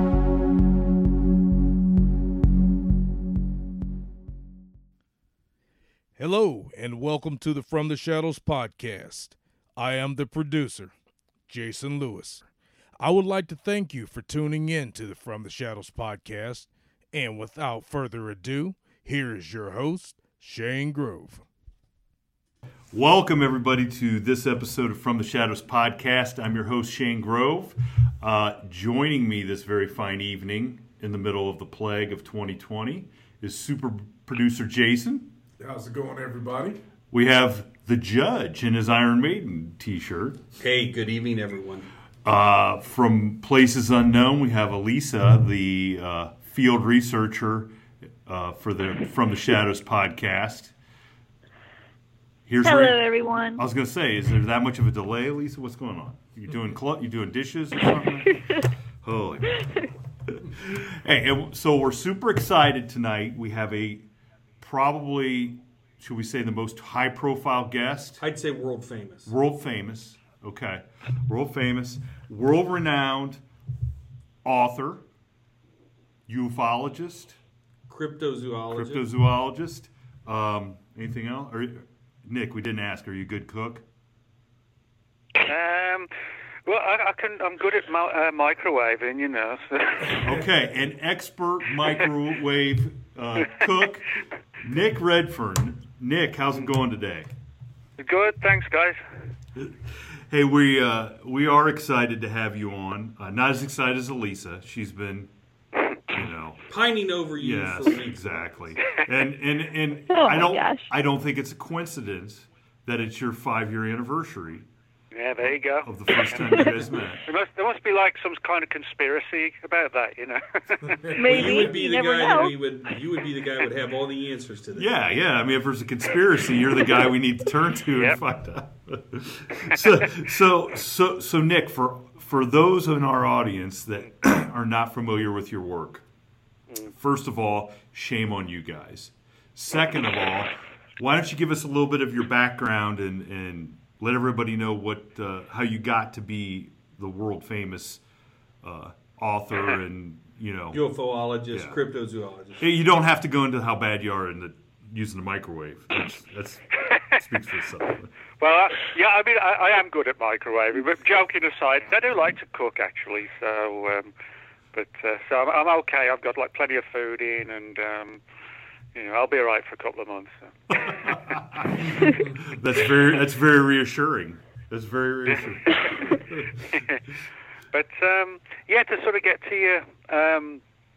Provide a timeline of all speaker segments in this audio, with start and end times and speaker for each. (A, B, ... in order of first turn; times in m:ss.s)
0:06.2-0:10.9 A
0:11.5-0:21.5 A
0:22.9-0:35.3 B
0:35.6-0:36.8 A
0:37.1-0:40.4 B
0:40.6-0:41.9 C
0:42.2-0:47.7 B
0:48.2-0:50.7 B
0:52.5-0:53.0 B
0:52.6-0:53.6 D
0:53.5-1:04.1 B
1:04.6-1:08.2 B
1:08.2-1:09.3 C
1:09.3-1:13.4 B
1:14.4-1:15.1 B
1:16.3-1:17.4 B
1:17.9-1:19.1 C
1:18.7-1:23.8 B
1:25.4-1:26.1 E
1:26.7-1:30.2 E
1:30.1-1:37.3 B
1:38.0-1:39.0 E
1:39.6-1:45.3 B
1:46.1-1:46.7 B
1:46.7-1:48.4 C
1:47.4-1:54.7 B
1:50.1-1:50.9 D
1:55.1-1:56.8 E
1:55.8-1:57.2 B
1:57.3-2:01.1 E
2:00.9-2:01.7 A
2:01.1-2:02.6 D
2:01.2-2:04.9 C
2:04.8-2:16.0 B
2:07.9-2:08.2 E
2:16.9-2:28.0 B
2:28.6-2:30.8 B
2:30.7-2:32.7 C
2:31.5-2:31.8 B
2:32.6-2:38.1 B
2:38.4-2:44.1 E
2:44.7-2:48.2 E
2:48.9-2:51.4 E
2:50.8-2:56.6 B
2:55.7-2:56.0 E
2:56.7-2:57.0 E
2:57.7-3:00.6 E